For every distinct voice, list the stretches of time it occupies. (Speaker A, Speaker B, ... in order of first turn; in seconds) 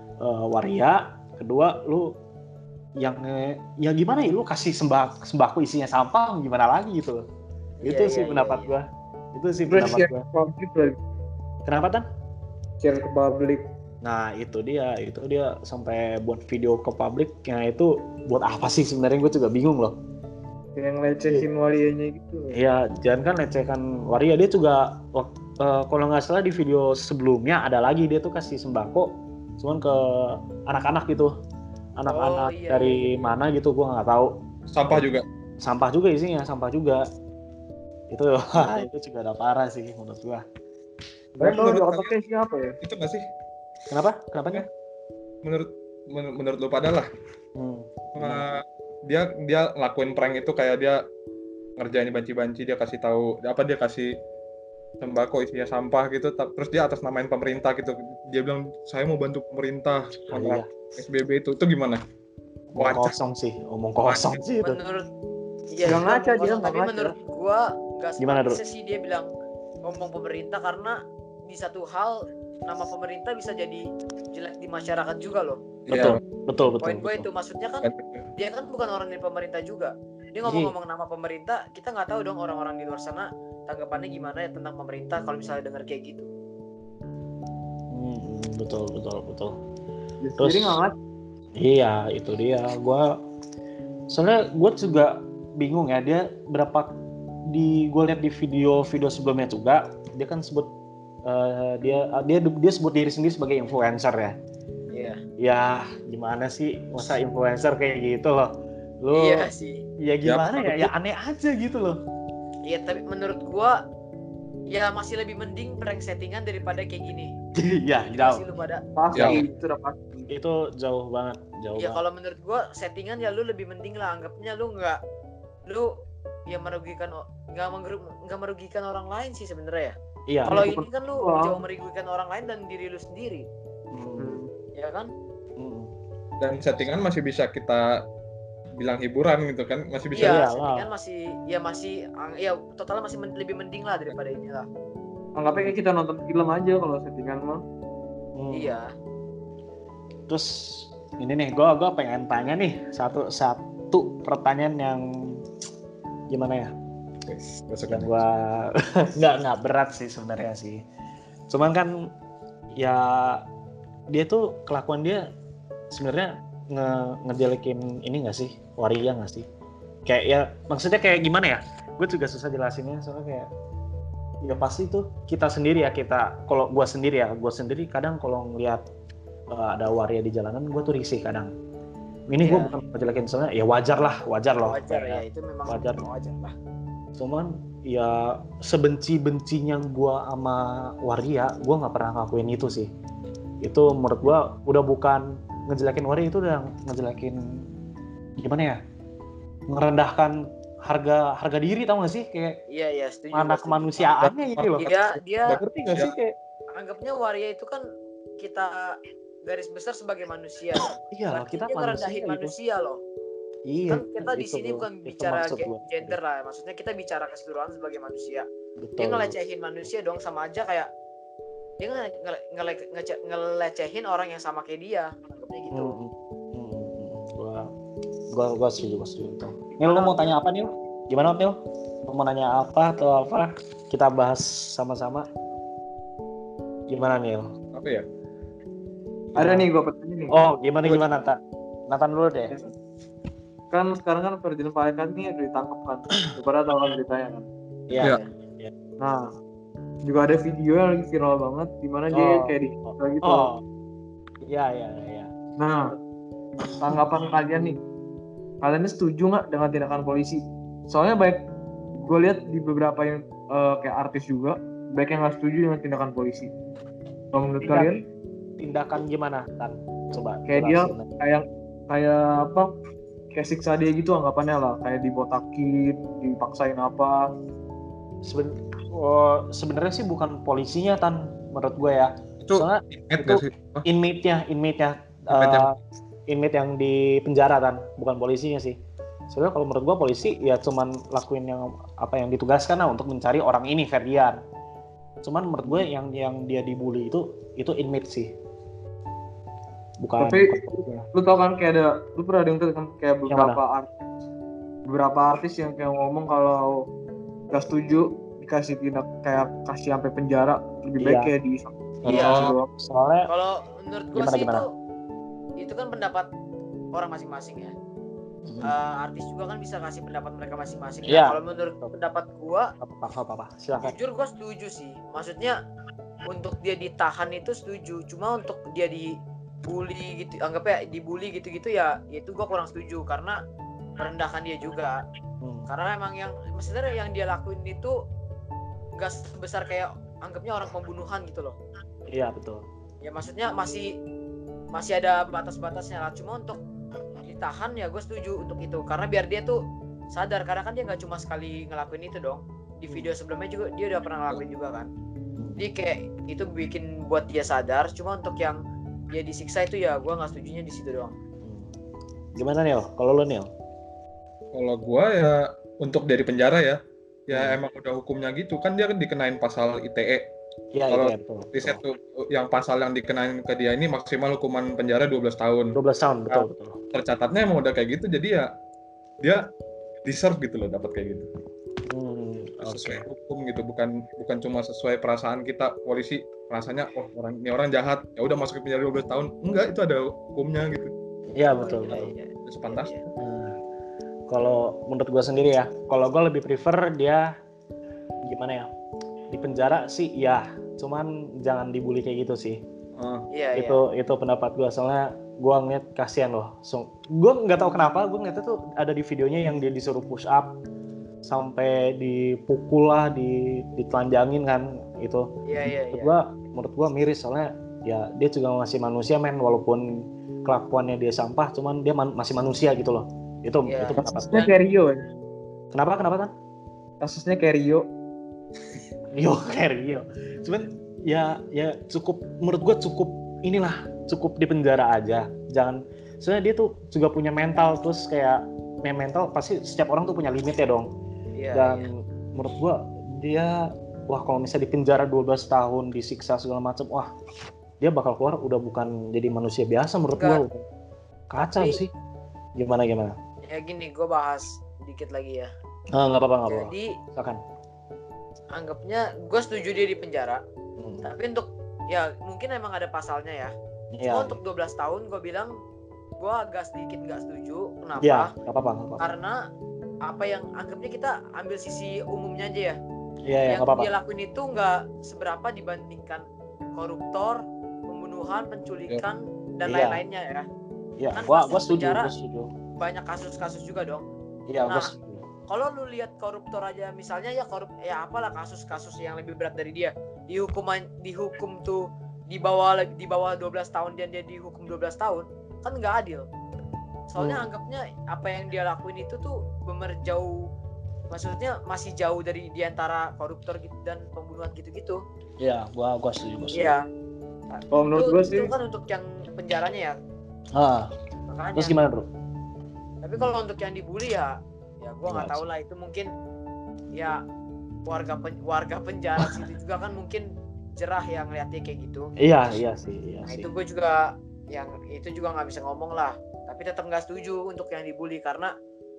Speaker A: 0.2-2.1, 3.0-7.2, 7.8-10.2, 11.7-12.1, 14.0-19.9, 22.5-31.3, 32.0-34.3, 35.6-37.0, 38.1-40.4, 43.9-44.7, 47.5-48.4, 60.3-60.7, 62.7-64.8, 68.2-68.6, 75.9-77.3, 80.4-80.7, 87.9-89.5, 90.4-90.8, 91.6-93.1, 94.1-96.9, 97.5-100.7, 101.2-104.3, 105.4-108.5, 109.0-109.5, 110.0-112.0, 117.5-118.4, 119.2-119.4, 120.3-122.0, 130.3-130.7, 133.9-134.4, 135.6-135.9, 140.2-140.9, 148.4-148.8, 150.3-155.4, 156.3-156.7, 157.9-160.8, 161.5-162.1, 162.7-163.4, 164.1-165.3, 165.9-169.4, 170.1-173.5, 174.4-178.8, 179.5-181.5, 182.3-186.0, 187.2-192.9, 193.6-197.6, 198.4-198.8, 199.7-202.6, 203.3-205.0, 205.5-206.3, 211.1-212.5, 213.7-216.2, 218.8-219.3, 225.7-227.7, 228.3-235.3, 236.9-237.5, 239.3-239.7, 240.3-242.6, 247.9-248.7, 252.1-253.6, 254.5-255.3, 267.6-267.9, 268.6-271.1, 278.2-285.8, 286.3-288.8, 289.3-294.4, 295.2-298.3, 300.0-301.1, 303.3-303.6, 311.0-311.3, 312.1-313.3, 314.1-314.6, 321.1-321.9, 322.8-323.9, 342.1-342.6, 361.4-361.7, 362.4-363.5, 367.3-367.6, 370.7-371.8, 375.7-376.8, 381.9-383.1, 391.4-392.1, 393.2-393.6, 394.3-397.3, 398.2-398.7, 399.3-402.6, 403.5-410.5, 411.3-415.3, 415.9-419.8, 420.4-424.5, 425.7-426.3, 429.1-440.9, 441.5-447.1, 447.8-450.6, 451.3-451.9, 452.6-453.1, 455.9-457.4, 460.8-461.1, 463.9-464.4, 468.0-469.0, 473.2-473.9, 479.6-480.0, 481.0-482.5, 484.5-485.3, 497.2-497.4, 505.4-506.7, 510.5-510.9, 511.6-512.0, 515.1-515.4, 522.2-523.5
Speaker B: 7.8-8.7, 32.1-33.3, 64.6-65.0, 65.7-69.3, 69.8-71.0, 71.5-72.2, 72.7-73.8, 74.3-75.6, 76.8-77.8, 78.4-86.3, 104.9-105.2, 109.1-109.8, 112.7-113.8, 114.7-117.3, 118.1-118.8, 121.8-125.0, 126.5-129.9, 130.4-133.4, 134.8-135.1, 140.1-144.7, 148.5-148.9, 182.4-182.7, 184.6-186.5, 202.7-204.2, 204.8-205.6, 206.8-207.8, 208.4-208.9, 209.4-213.0, 213.9-218.4, 219.0-220.9, 221.8-225.9, 248.0-248.3, 312.0-312.5, 313.3-314.6, 315.6-316.3, 316.9-317.7, 318.6-322.7, 323.8-325.6, 326.2-329.1, 329.7-333.4, 334.0-335.0, 335.7-337.9, 339.0-341.6, 343.0-343.9, 344.7-346.6, 347.2-349.6, 350.1-354.9, 355.6-358.6, 359.1-361.1, 391.5-393.0, 403.3-403.8, 415.4-416.1, 423.6-424.5, 441.3-441.9, 450.2-450.4, 451.4-451.8, 453.4-455.5, 456.5-456.9, 458.6-460.4, 461.0-463.5, 464.1-465.5, 466.2-468.3, 469.0-469.4, 470.1-472.8, 473.5-476.2, 476.8-480.4, 481.1-482.1, 482.8-484.0, 484.7-484.9, 485.5-496.2, 497.1-500.4, 501.1-505.0, 506.5-506.8, 507.5-509.9, 511.3-511.7, 513.0-516.1, 517.9-520.2, 520.8-522.1, 523.3-528.5
Speaker C: 9.7-11.0, 12.8-13.6, 20.8-22.5, 41.4-42.8, 65.8-67.1, 90.2-90.9, 119.0-120.3, 130.5-131.6, 134.2-134.5, 145.3-147.6, 239.3-240.4, 243.7-247.4, 249.0-249.3, 250.0-253.5, 255.6-255.9, 256.8-257.8, 258.6-261.4, 262.0-266.5, 267.3-268.0, 270.5-272.7, 273.3-277.2, 300.2-303.9, 304.9-306.8, 307.5-312.7, 424.0-425.0, 427.0-427.9, 507.7-508.5
Speaker D: 34.7-35.2, 41.4-42.2, 42.8-43.2, 45.4-47.1, 48.1-51.0, 51.8-54.1, 55.0-62.0, 62.8-63.1, 64.1-64.4, 75.9-76.2, 77.8-78.2, 110.2-110.9, 119.1-119.4, 136.4-137.8, 138.8-140.4, 157.2-158.2, 204.4-204.8, 205.5-206.1, 237.7-238.1, 240.8-241.1, 282.4-283.9, 285.3-285.7, 312.1-312.5, 364.5-366.8, 367.3-370.2, 370.9-375.8, 376.3-378.5, 380.1-381.3, 382.6-390.9, 392.4-392.9, 403.0-403.2